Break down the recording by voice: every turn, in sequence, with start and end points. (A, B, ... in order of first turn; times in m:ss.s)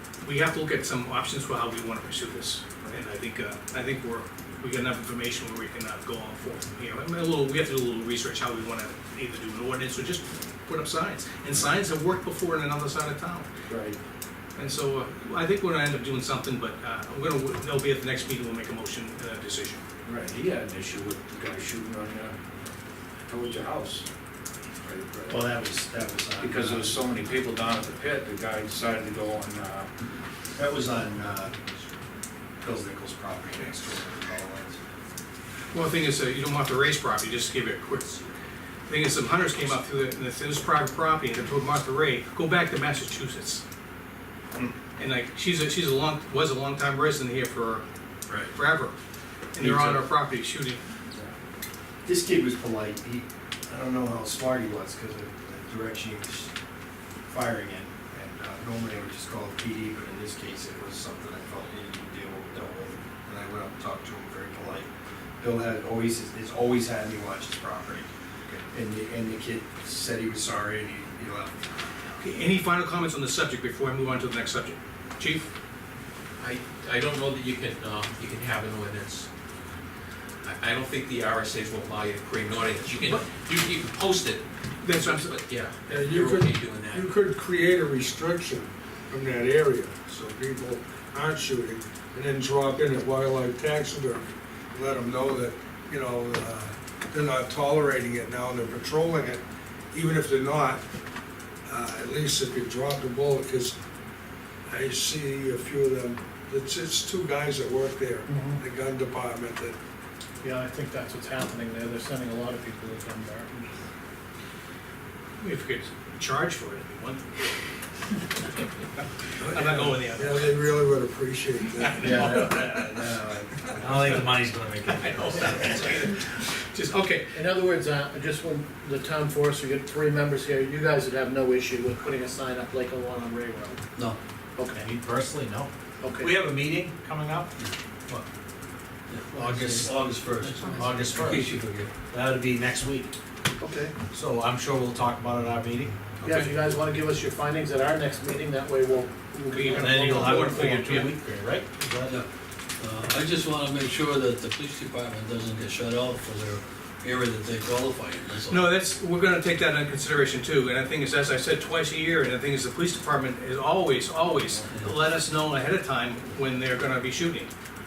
0:00.2-0:13.5 A
0:13.7-0:14.0 B
0:14.6-0:19.8 A
0:20.0-0:22.7 B
0:23.2-0:24.0 B
0:24.8-0:25.5 B
0:25.3-0:26.5 C
0:26.3-0:27.0 D
0:26.4-0:29.9 B
0:30.6-0:31.6 D
0:32.6-0:34.8 D
0:35.7-0:38.2 A
0:38.9-0:43.6 A
0:45.0-0:47.8 A
0:48.5-0:49.0 A
0:49.6-0:50.8 A
0:52.0-0:56.5 D
0:57.3-1:04.9 D
1:05.4-1:11.5 D
1:12.2-1:15.5 A
1:16.4-1:19.3 E
1:20.4-1:27.1 E
1:23.0-1:23.3 A
1:24.8-1:25.4 A
1:25.8-1:39.4 F
1:39.9-1:40.8 F
1:41.7-1:43.7 F
1:44.7-1:49.8 F
1:48.3-1:48.6 G
1:50.4-1:53.5 G
1:55.4-1:57.5 A
1:59.4-2:04.3 F
1:59.4-2:00.6 A
2:01.8-2:02.8 A
2:02.0-2:02.6 C
2:02.4-2:03.4 D
2:03.8-2:05.9 C
2:04.0-2:04.4 A
2:04.9-2:07.4 A
2:07.3-2:13.8 G
2:14.6-2:14.8 G
2:14.7-2:17.5 C
2:16.0-2:16.4 G
2:19.1-2:22.0 H
2:19.3-2:21.6 C
2:22.1-2:23.1 C
2:23.6-2:24.0 G
2:24.1-2:26.0 C
2:26.2-2:26.5 A
2:26.2-2:30.7 G
2:29.4-2:31.1 A
2:29.8-2:32.2 C
2:32.8-2:38.8 H
2:38.5-2:47.5 A
2:44.7-2:45.0 H